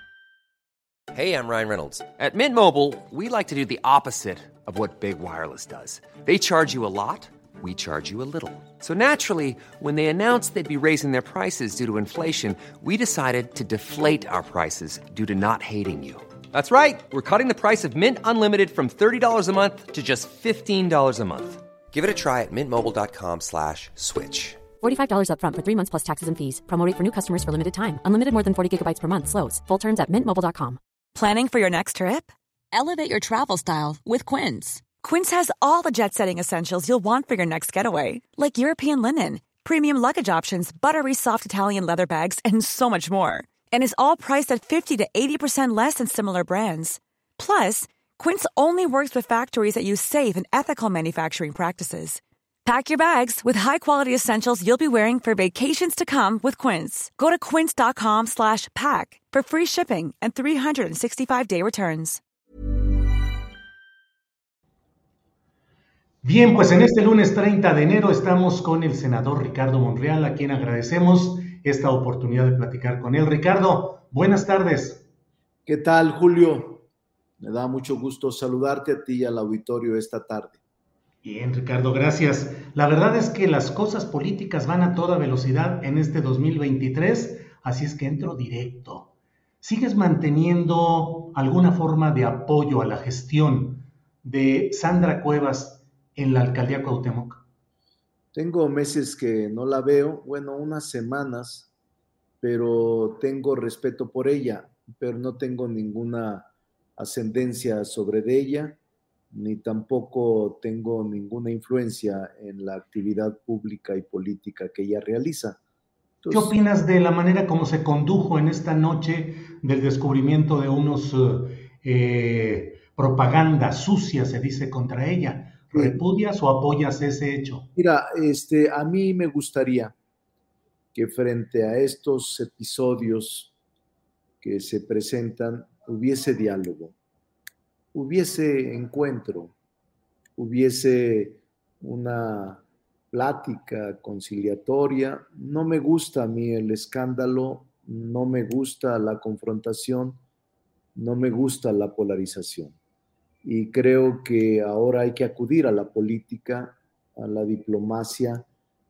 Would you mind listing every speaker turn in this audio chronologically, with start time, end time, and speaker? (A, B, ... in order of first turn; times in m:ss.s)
0:01.1-0:24.7 A
0:24.8-0:30.8 B
0:31.2-1:02.2 C
1:06.2-1:15.1 D
1:15.7-1:16.9 E
1:17.4-1:20.6 E
1:21.2-1:29.1 D
1:29.6-1:37.4 D
1:38.3-1:41.7 E
1:42.4-1:46.5 E
1:47.0-1:48.8 E
1:49.3-1:55.6 E
1:56.2-1:56.6 E
1:56.3-2:07.7 D
2:05.7-2:06.0 E
2:07.8-2:10.0 E
2:10.9-2:13.5 E
2:14.4-2:17.0 E
2:17.9-2:19.6 E
2:20.4-2:30.2 E
2:31.0-2:32.8 E
2:33.4-2:38.5 E